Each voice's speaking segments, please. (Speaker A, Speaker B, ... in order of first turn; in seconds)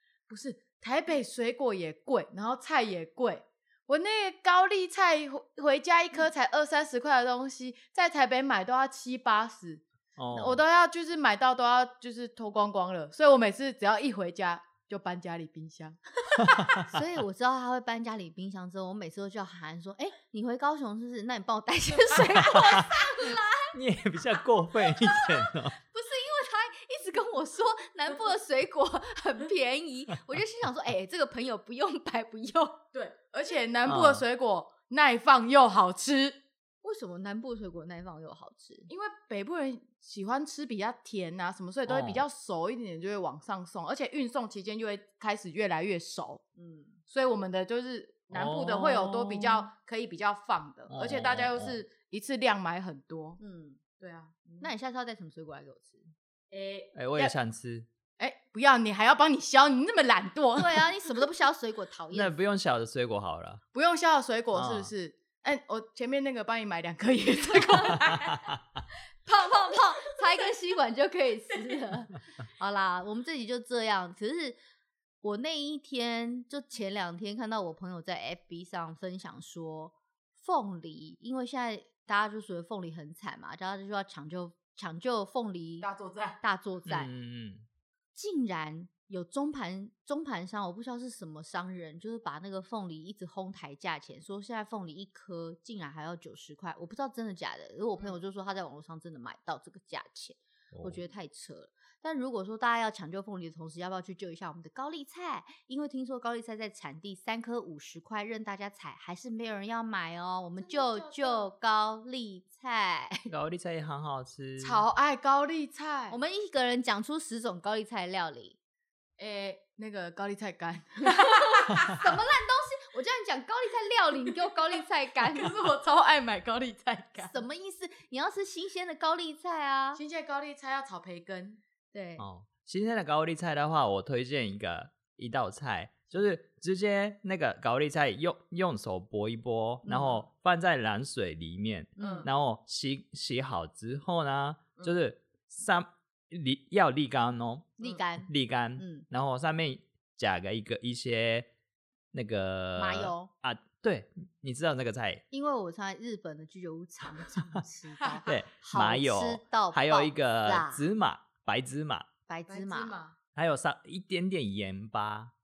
Speaker A: 0.3-16.8, 32.9-36.4, 38.9-46.4, 47.1-53.4, 54.0-54.7, 56.5-57.3, 58.2-60.9, 63.7-68.4, 85.8-86.4, 110.6-111.5, 114.6-116.2, 119.2-122.1, 125.2-127.3, 129.9-131.6, 142.0-142.3, 162.5-163.2
Speaker B: 10.2-10.6, 16.4-17.0, 22.3-23.1, 23.7-25.8, 33.9-34.2, 41.9-42.2, 48.3-49.7, 50.9-51.8, 56.9-57.9, 62.1-63.6, 64.5-64.9, 86.9-87.6, 100.7-101.0, 113.3-114.8, 132.2-151.5, 152.1-155.2, 157.3-157.6, 158.2-162.1, 163.3-165.3
Speaker C: 16.5-23.7, 25.0-32.8, 36.8-38.9, 46.6-47.0, 53.4-53.8, 54.6-56.1, 60.6-62.4, 69.2-74.6, 75.2-85.9, 86.4-87.1, 88.1-113.3, 116.1-118.5, 121.1-125.5, 127.2-130.0, 131.9-132.2, 139.8-140.2, 142.0-142.3, 147.8-149.1, 152.8-153.3, 155.3-160.8, 162.3-162.9